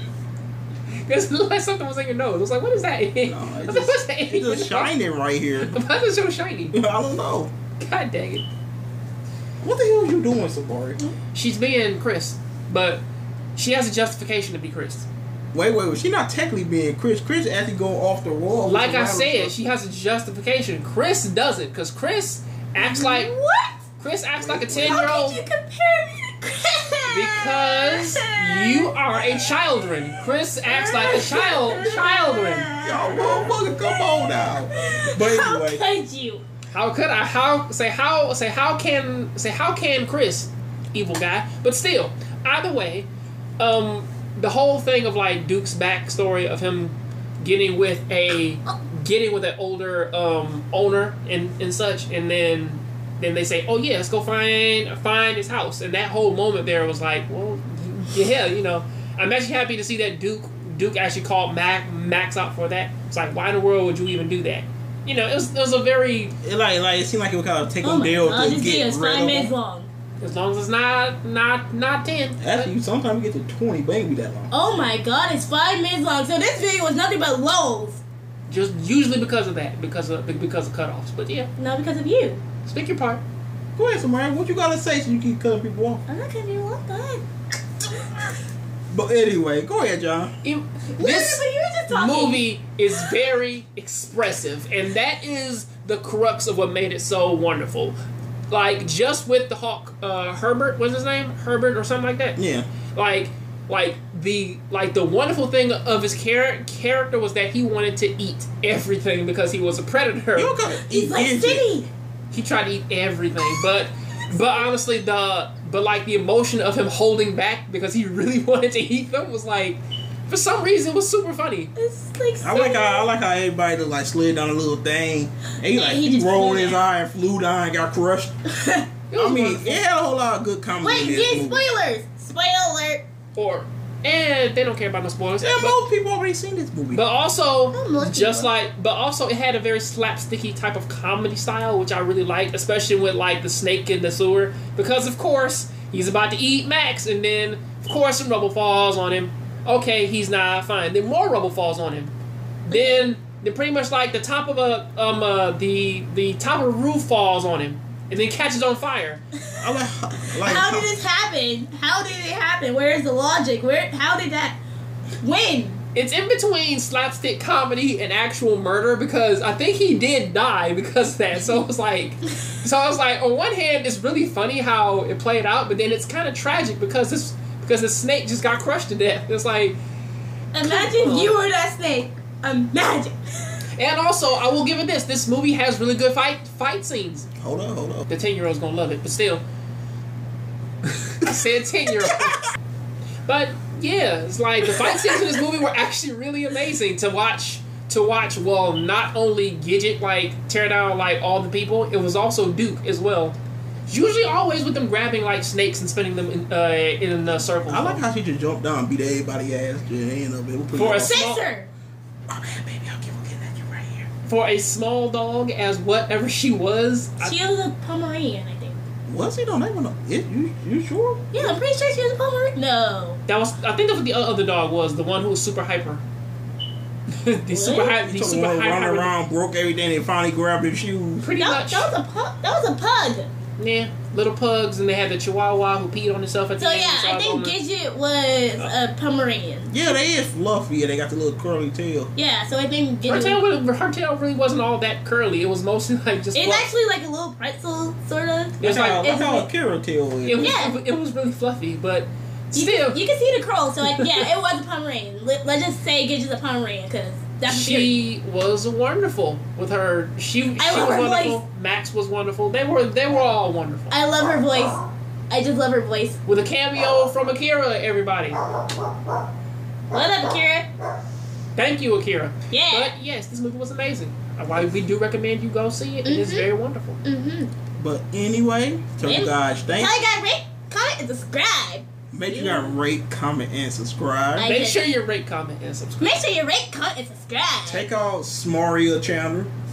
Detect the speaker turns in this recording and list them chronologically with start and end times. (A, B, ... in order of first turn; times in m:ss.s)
0:00.9-0:04.9 A
0:03.2-0:05.8 B
0:05.6-0:06.8 A
0:06.7-0:07.5 B
0:07.8-0:08.4 A
0:09.6-0:11.0 B
0:11.3-0:13.0 A
0:13.6-0:15.1 A
0:15.5-0:19.5 B
0:18.6-0:23.3 A
0:22.8-0:23.8 C
0:24.0-0:25.4 A
0:24.4-0:25.0 B
0:24.8-0:28.9 C
0:27.1-0:32.7 A
0:30.6-0:33.9 C
0:32.8-0:35.8 B
0:34.7-0:36.4 C
0:36.7-0:43.1 A
0:43.6-1:06.3 A
1:06.4-1:09.5 B
1:07.8-1:09.9 C
1:10.2-1:12.7 A
1:12.4-1:14.5 B
1:14.5-1:18.0 C
1:18.5-1:21.5 A
1:21.6-1:22.4 C
1:22.6-1:23.2 A
1:23.8-1:26.0 B
1:26.1-1:27.2 C
1:28.9-1:30.3 B
1:30.4-1:38.0 A
1:30.9-1:32.4 C
1:38.5-1:42.4 A
1:42.4-1:42.7 B
1:42.9-1:50.6 A
1:50.4-1:51.7 B
1:50.7-1:51.9 C
1:52.3-2:01.7 A
2:01.8-2:03.1 C
2:02.4-2:08.3 B
2:05.7-2:06.8 C
2:08.5-2:08.9 C
2:09.1-2:09.8 A
2:09.2-2:11.6 B
2:10.8-2:13.0 C
2:13.4-2:15.8 A
2:15.4-2:17.0 B
2:16.9-2:32.1 A
2:17.7-2:18.5 C
2:32.6-2:39.2 A
2:32.7-2:33.1 C
2:39.6-2:40.9 B
2:40.4-2:44.6 C
2:45.2-2:45.8 C
2:45.9-2:59.8 A
3:00.5-3:03.6 C
3:00.6-3:01.4 A
3:03.8-3:07.3 A
3:07.4-3:08.0 B
3:08.1-3:09.4 A
3:10.9-3:12.4 A
3:13.3-3:23.4 A
3:23.9-3:28.0 A
3:27.7-3:31.3 B
3:30.7-3:31.4 A
3:30.9-3:31.7 C
3:32.3-3:34.1 B
3:34.2-3:37.4 A
3:37.2-3:38.8 C
3:39.1-3:41.3 B
3:41.3-3:43.2 C
3:43.3-3:46.0 A
3:47.1-3:49.1 A
3:47.5-3:48.0 C
3:48.0-3:51.2 B
3:51.2-3:51.9 A
3:51.4-3:53.3 C
3:53.6-3:57.6 A
3:56.6-3:59.7 C
3:59.7-4:02.1 B
4:02.2-4:03.4 C
4:03.1-4:06.7 A
4:06.3-4:09.5 C
4:08.6-4:09.2 A
4:08.6-4:10.5 B
4:10.2-4:13.0 A
4:10.3-4:10.8 C
4:12.5-4:18.0 C
4:13.9-4:14.2 A
4:17.5-4:23.9 A
4:20.6-4:21.4 C
4:23.9-4:24.8 C
4:25.3-4:26.2 C
4:26.2-4:28.4 A
4:29.9-4:30.7 C
4:31.6-4:37.0 A
4:32.5-4:32.9 C
4:36.0-4:36.5 C
4:37.0-4:37.5 C
4:37.8-4:40.0 B
4:39.0-4:42.7 C
4:42.1-4:44.5 B
4:44.4-4:44.9 C
4:44.4-4:46.2 A
4:46.0-4:47.9 C
4:47.6-4:49.5 B